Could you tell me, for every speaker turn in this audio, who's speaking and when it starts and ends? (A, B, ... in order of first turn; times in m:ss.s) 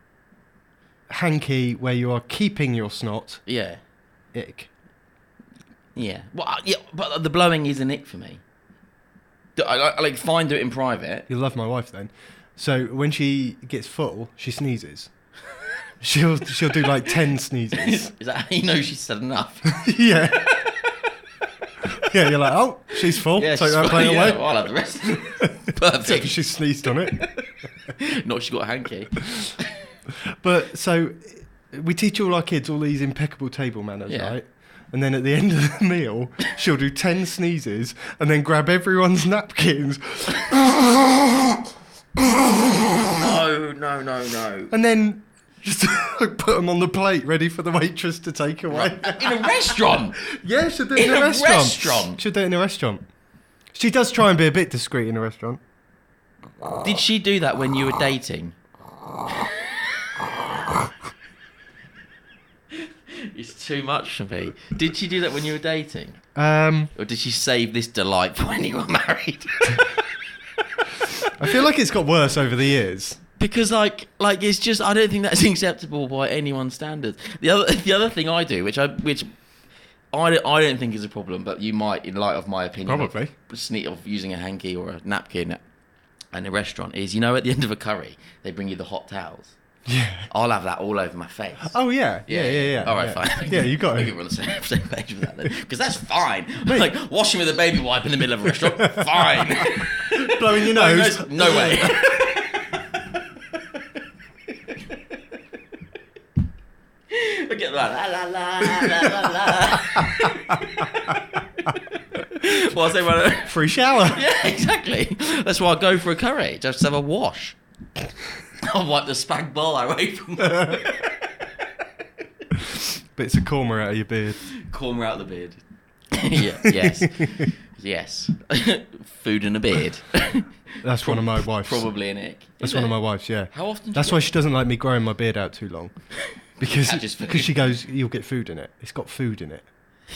0:01.1-0:03.4 A
0:03.4-0:03.8 B
0:04.3-0:04.7 A
0:05.9-0:08.4 B
0:09.6-0:11.2 B
0:11.3-0:15.1 A
0:16.0-0:18.1 A
0:17.8-0:20.8 B
0:19.7-0:20.5 A
0:22.0-0:24.5 A
0:23.3-0:27.4 B
0:25.4-0:27.2 A
0:28.0-0:29.7 B
0:30.4-0:40.5 A
0:34.1-0:34.4 B
0:43.0-0:44.7 B
0:44.7-0:53.0 A
0:48.7-0:50.2 B
0:50.9-0:52.2 B
0:53.7-0:55.6 A
0:56.8-0:58.5 B
1:03.2-1:06.2 B
1:06.4-1:06.9 A
1:07.0-1:10.1 B
1:11.4-1:13.2 A
1:13.4-1:19.3 B
1:20.1-1:25.6 B
1:22.8-1:23.3 A
1:26.3-1:29.6 B
1:29.9-1:30.3 A
1:30.3-1:31.8 B
1:31.6-1:34.1 A
1:32.3-1:42.8 B
1:38.6-1:39.7 A
1:40.2-1:42.0 A
1:47.1-1:57.6 B
1:53.4-1:54.2 A
1:58.6-2:01.2 B
2:03.1-2:04.4 A
2:04.6-2:10.5 B
2:06.8-2:07.2 A
2:10.8-2:11.9 A
2:11.0-2:14.3 B
2:12.6-2:15.9 A
2:16.6-2:19.7 A
2:16.6-2:17.6 B